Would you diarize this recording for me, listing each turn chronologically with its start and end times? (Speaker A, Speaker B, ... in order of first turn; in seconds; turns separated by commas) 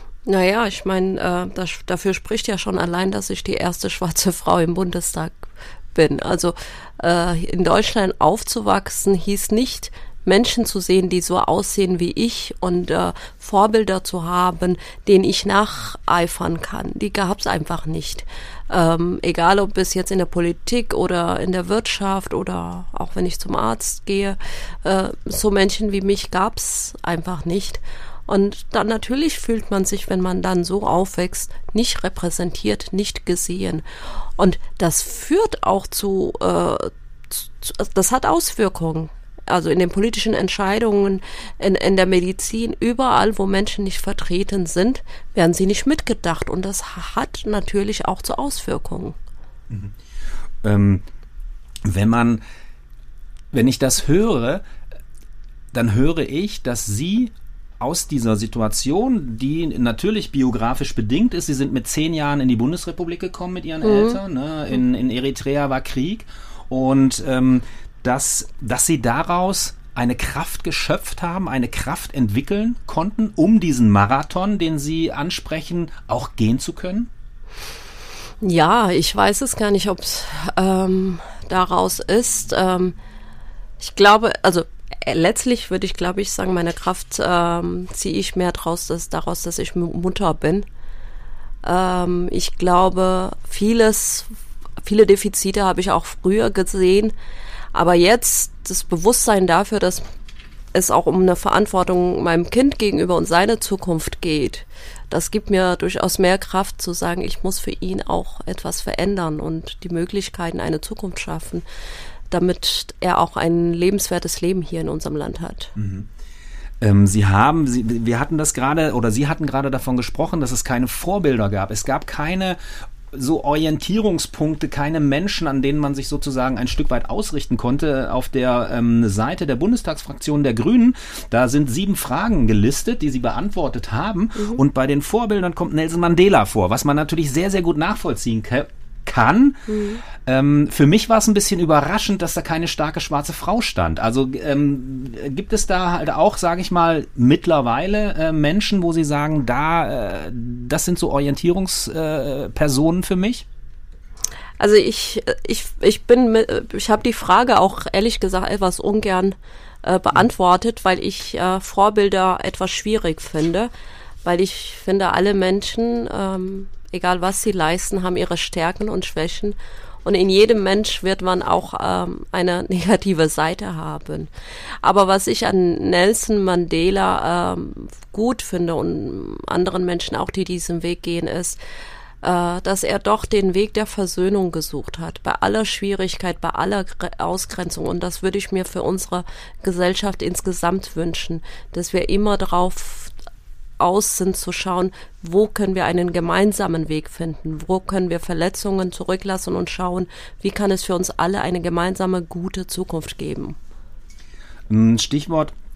Speaker A: 0.3-33.8, Speaker A: 34.4-49.2, Speaker B: 50.6-51.0, Speaker B: 51.9-52.4, Speaker B: 53.5-54.6, Speaker B: 55.7-77.1, Speaker A: 63.8-64.2, Speaker A: 78.4-83.0, Speaker A: 83.8-90.7, Speaker A: 91.6-94.3, Speaker A: 94.8-97.1, Speaker A: 97.7-100.0, Speaker A: 100.7-111.7, Speaker A: 112.3-115.7, Speaker B: 115.8-116.1, Speaker B: 116.8-122.6, Speaker B: 123.1-139.7, Speaker A: 139.7-140.0, Speaker B: 140.2-153.5, Speaker A: 154.6-163.7, Speaker A: 164.2-174.3, Speaker A: 174.8-181.6, Speaker A: 182.2-193.1, Speaker A: 193.8-203.6, Speaker B: 204.7-205.5